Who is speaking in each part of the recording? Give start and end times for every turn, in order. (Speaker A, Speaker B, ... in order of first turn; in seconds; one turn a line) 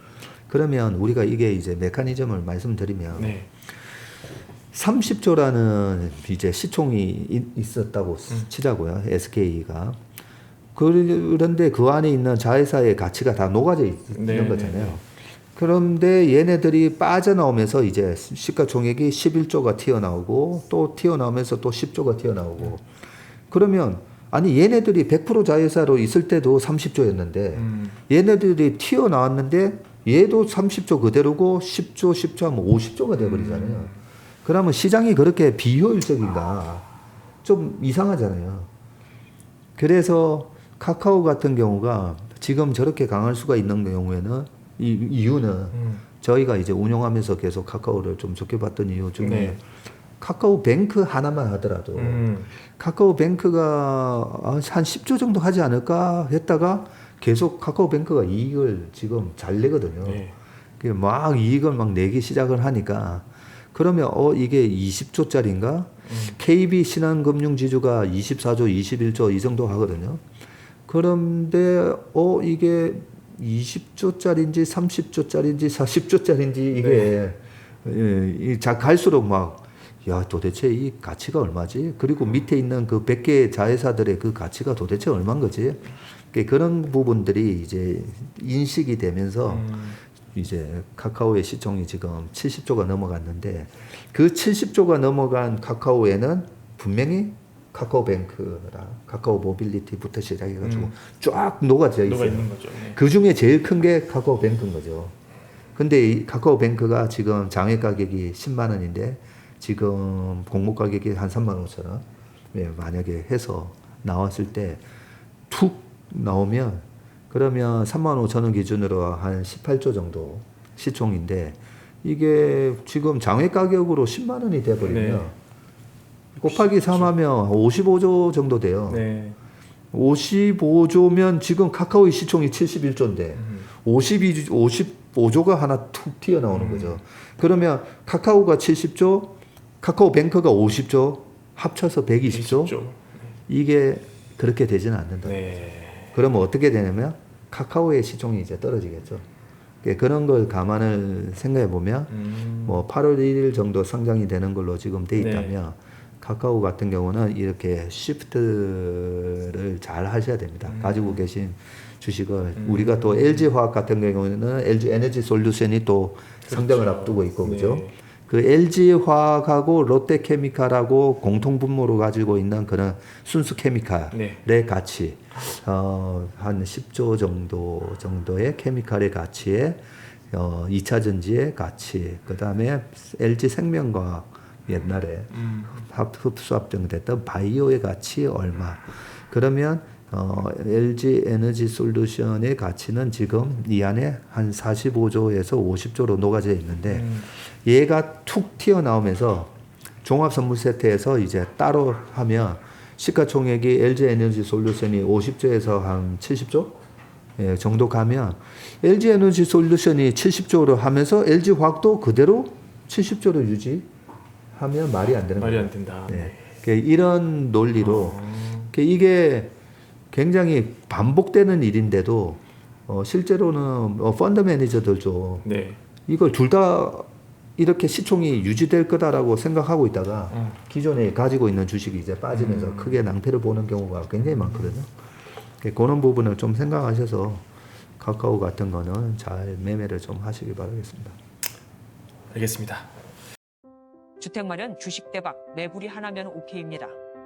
Speaker A: 0.5-3.4
Speaker B: 3.1-3.5
Speaker A: 4.7-10.0
Speaker A: 10.8-22.9
Speaker B: 14.1-15.0
Speaker A: 23.5-33.9
Speaker B: 27.6-28.0
Speaker B: 33.2-34.0
Speaker A: 34.4-36.9
Speaker A: 37.4-38.7
Speaker A: 39.8-49.6
Speaker B: 45.7-46.0
Speaker B: 49.2-49.6
Speaker A: 50.2-60.2
Speaker B: 52.0-52.5
Speaker B: 60.0-60.4
Speaker A: 60.8-70.2
Speaker B: 66.1-66.4
Speaker A: 70.9-89.8
Speaker B: 76.7-77.2
Speaker B: 89.5-90.0
Speaker A: 90.3-105.2
Speaker B: 100.6-101.0
Speaker B: 102.0-103.0
Speaker A: 105.8-114.8
Speaker A: 115.5-125.3
Speaker B: 124.8-125.3
Speaker B: 126.4-127.2
Speaker A: 126.4-129.0
Speaker B: 128.9-129.4
Speaker A: 129.9-142.8
Speaker B: 133.3-133.7
Speaker B: 136.5-137.0
Speaker B: 142.3-143.3
Speaker A: 143.5-145.5
Speaker B: 145.2-146.2
Speaker A: 146.1-149.2
Speaker A: 149.8-206.8
Speaker B: 152.1-152.8
Speaker B: 155.2-155.6
Speaker B: 160.7-161.3
Speaker B: 162.6-163.5
Speaker B: 166.4-168.0
Speaker B: 174.1-174.4
Speaker B: 185.3-185.7
Speaker B: 196.9-197.3
Speaker A: 207.4-213.9
Speaker A: 214.5-219.5
Speaker B: 215.4-216.4
Speaker B: 217.8-218.7
Speaker A: 220.1-225.5
Speaker B: 225.4-225.8
Speaker A: 226.1-234.9
Speaker B: 230.3-230.6
Speaker B: 232.3-233.2
Speaker A: 235.6-237.5
Speaker A: 238.0-241.2
Speaker B: 242.3-242.9
Speaker C: 244.2-247.0